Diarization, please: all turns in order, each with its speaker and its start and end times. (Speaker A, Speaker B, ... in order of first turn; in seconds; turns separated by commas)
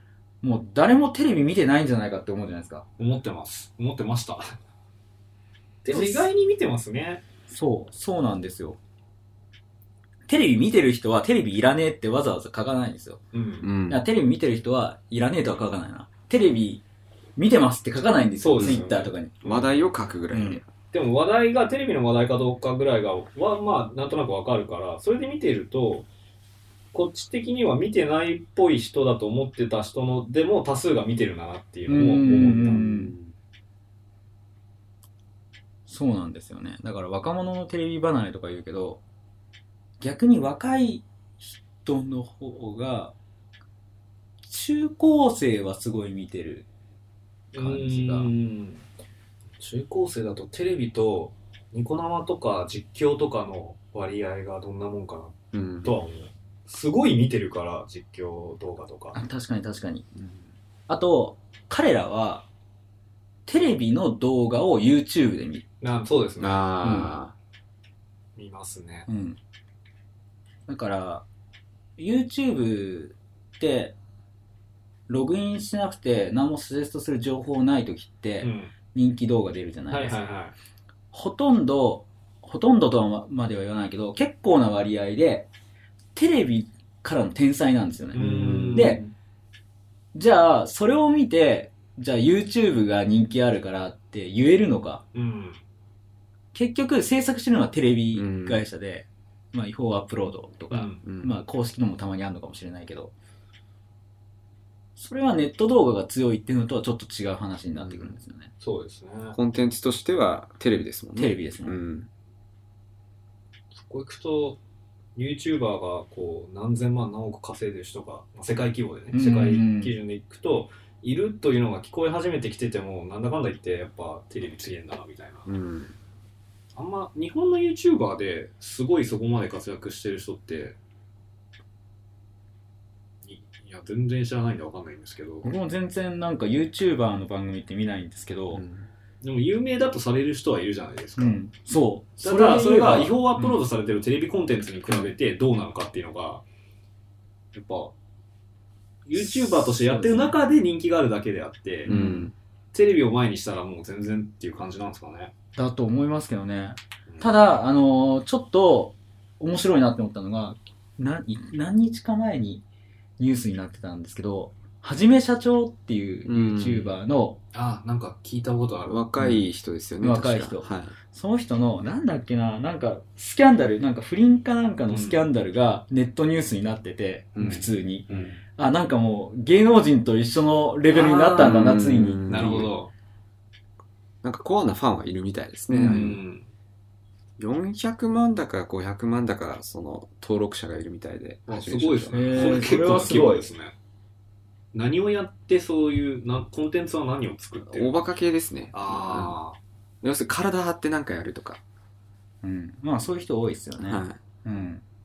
Speaker A: 0.4-2.8, Speaker B: 3.0-4.6, Speaker B: 5.8-7.2, Speaker A: 5.9-6.3, Speaker A: 7.5-8.8, Speaker A: 10.3-13.2, Speaker B: 13.3-13.7, Speaker C: 13.6-14.0, Speaker A: 13.9-16.8, Speaker A: 17.4-19.3, Speaker B: 18.4-19.8, Speaker C: 19.4-20.6, Speaker A: 20.3-20.6, Speaker B: 20.9-26.1, Speaker B: 26.9-32.9, Speaker A: 31.9-33.1, Speaker C: 32.8-33.3, Speaker A: 35.9-39.0, Speaker A: 40.0-43.1, Speaker A: 44.4-46.7, Speaker B: 47.5-48.8, Speaker A: 47.5-48.3, Speaker B: 49.6-59.2, Speaker C: 55.5-55.9, Speaker A: 59.1-60.0, Speaker C: 60.1-60.4, Speaker A: 60.9-62.5, Speaker A: 63.5-65.6, Speaker B: 65.8-66.8, Speaker C: 66.4-67.3, Speaker A: 66.8-67.1, Speaker B: 68.3-69.1, Speaker A: 69.1-69.4, Speaker A: 70.7-71.2, Speaker A: 72.0-73.9, Speaker A: 75.1-80.2, Speaker B: 78.4-78.7, Speaker B: 79.9-80.5, Speaker A: 81.1-85.5, Speaker A: 86.1-89.0, Speaker B: 88.1-89.1, Speaker C: 88.2-88.9, Speaker A: 90.1-95.0, Speaker B: 95.1-95.6, Speaker A: 96.5-103.1, Speaker C: 98.1-98.6, Speaker B: 100.7-101.0, Speaker C: 101.0-101.4, Speaker A: 105.0-108.5, Speaker C: 107.8-108.1, Speaker B: 108.6-109.4, Speaker C: 109.3-112.1, Speaker A: 111.2-111.8, Speaker B: 113.7-114.6, Speaker B: 115.1-125.5, Speaker A: 119.1-119.9, Speaker C: 125.5-125.9, Speaker B: 126.7-130.8, Speaker B: 133.2-135.5, Speaker A: 135.4-138.6, Speaker C: 138.5-138.9, Speaker B: 139.2-141.3, Speaker A: 141.2-143.6, Speaker B: 142.2-146.4, Speaker B: 147.5-147.9, Speaker B: 149.1-152.0, Speaker A: 149.2-150.3, Speaker C: 151.8-152.3, Speaker A: 151.9-152.3, Speaker B: 152.7-155.3, Speaker A: 155.6-162.6, Speaker A: 163.2-167.4, Speaker C: 166.2-166.9, Speaker B: 167.5-169.1, Speaker C: 168.9-170.9, Speaker A: 170.0-182.6, Speaker B: 174.9-175.2, Speaker C: 177.3-178.3, Speaker B: 178.1-178.4, Speaker B: 180.9-181.7, Speaker C: 181.3-182.7, Speaker B: 182.3-182.9, Speaker C: 184.2-186.2, Speaker A: 185.7-186.1, Speaker B: 185.8-186.5, Speaker C: 187.4-192.7, Speaker B: 191.5-193.7, Speaker A: 192.1-193.5, Speaker B: 194.7-198.0, Speaker C: 197.7-199.4, Speaker B: 198.7-199.6, Speaker C: 200.0-201.6, Speaker A: 202.4-204.8, Speaker C: 203.8-204.2